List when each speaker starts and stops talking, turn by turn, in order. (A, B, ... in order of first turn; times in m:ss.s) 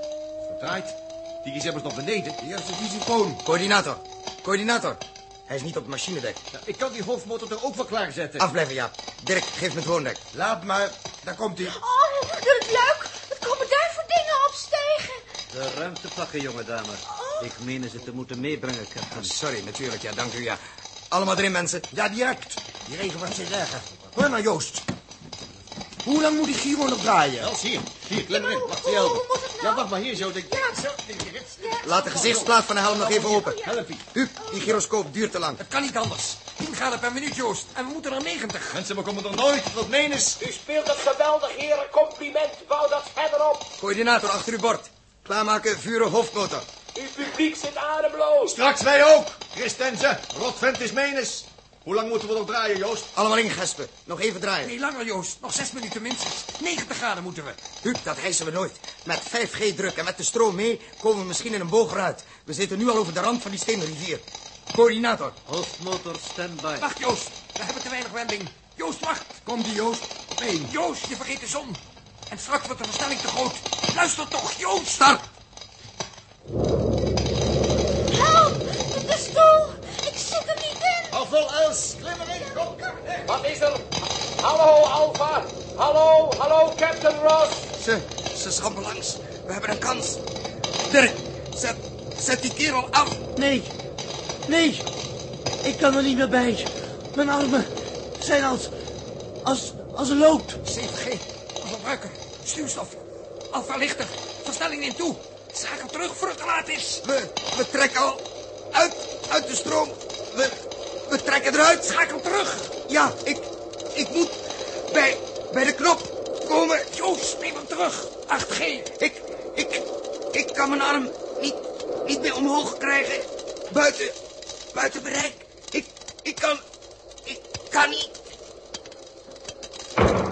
0:00.4-0:02.4 A
0:02.4-0:03.4 B
0:03.4-0:06.4 C
0:06.5-0:08.5 A
0:08.4-0:10.2 C
0:10.3-0:11.8 B
0:11.6-0:15.2 D
0:15.5-0:19.3 E
0:17.1-0:17.5 D
0:19.1-0:21.9 C
0:21.9-0:24.9 B
0:26.0-0:27.5 B
0:27.4-0:34.0 A
0:28.1-0:30.8 D
0:31.6-0:32.1 D
0:31.8-0:35.6 C
0:33.2-0:33.8 D
0:34.4-0:34.7 D
0:35.6-0:38.8 F
0:38.7-0:40.4 A
0:40.4-0:43.7 G
0:43.8-0:46.7 C
0:46.9-0:48.6 G
0:48.5-0:53.1 A
0:53.1-0:54.7 C
0:54.6-0:57.6 F
0:57.8-1:05.4 C
1:05.4-1:06.9 E
1:06.8-1:09.4 F
1:09.4-1:10.7 B
1:10.6-1:15.2 F
1:18.1-1:21.2 D
1:21.1-1:23.3 A
1:22.4-1:22.6 D
1:23.2-1:27.7 G
1:27.8-1:30.2 C
1:30.9-1:33.3 C
1:33.3-1:33.7 B
1:34.5-1:34.8 B
1:35.6-1:38.7 B
1:39.4-1:40.6 B
1:40.6-1:47.0 F
1:47.0-1:52.0 C
1:51.7-1:52.7 F
1:52.9-1:56.9 C
1:56.9-1:58.9 F
1:59.0-2:04.2 C
2:04.7-2:06.6 C
2:07.2-2:08.2 C